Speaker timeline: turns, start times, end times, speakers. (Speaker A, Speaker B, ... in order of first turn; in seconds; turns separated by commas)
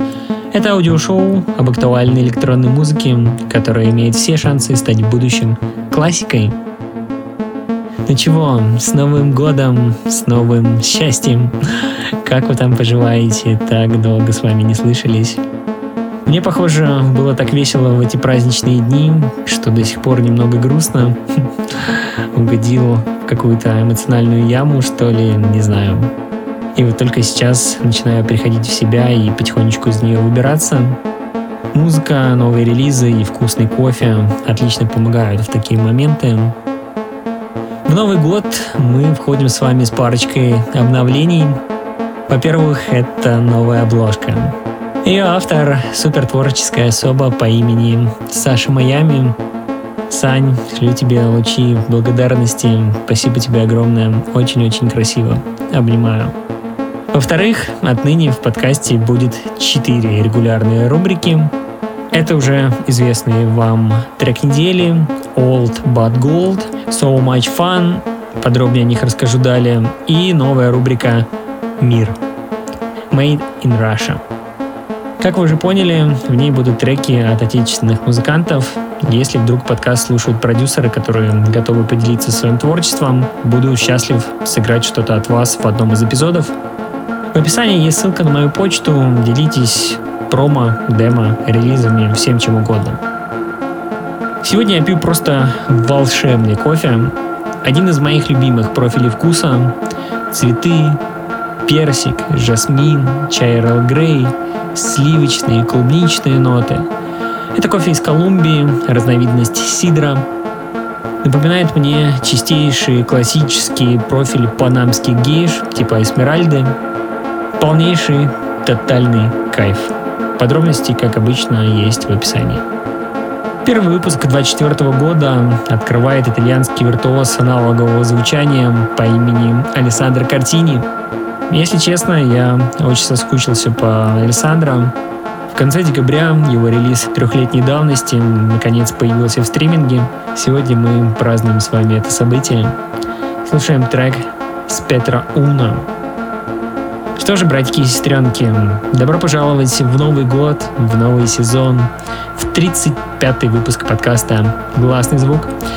Speaker A: 0.5-6.5, Speaker A: 8.1-15.4, Speaker A: 16.2-26.1, Speaker A: 26.7-31.0, Speaker A: 31.7-36.5, Speaker A: 37.9-41.6, Speaker A: 42.3-49.4, Speaker A: 50.1-56.3, Speaker A: 57.1-61.5, Speaker A: 62.1-71.3, Speaker A: 71.8-72.2, Speaker A: 73.1-74.2, Speaker A: 75.2-86.5, Speaker A: 87.3-93.0, Speaker A: 94.4-99.8, Speaker A: 100.3-101.0, Speaker A: 101.7-106.9, Speaker A: 107.5-110.2, Speaker A: 111.2-116.8, Speaker A: 117.6-122.6, Speaker A: 123.6-130.9, Speaker A: 131.5-134.9, Speaker A: 135.5-142.8, Speaker A: 143.4-145.9, Speaker A: 147.2-155.5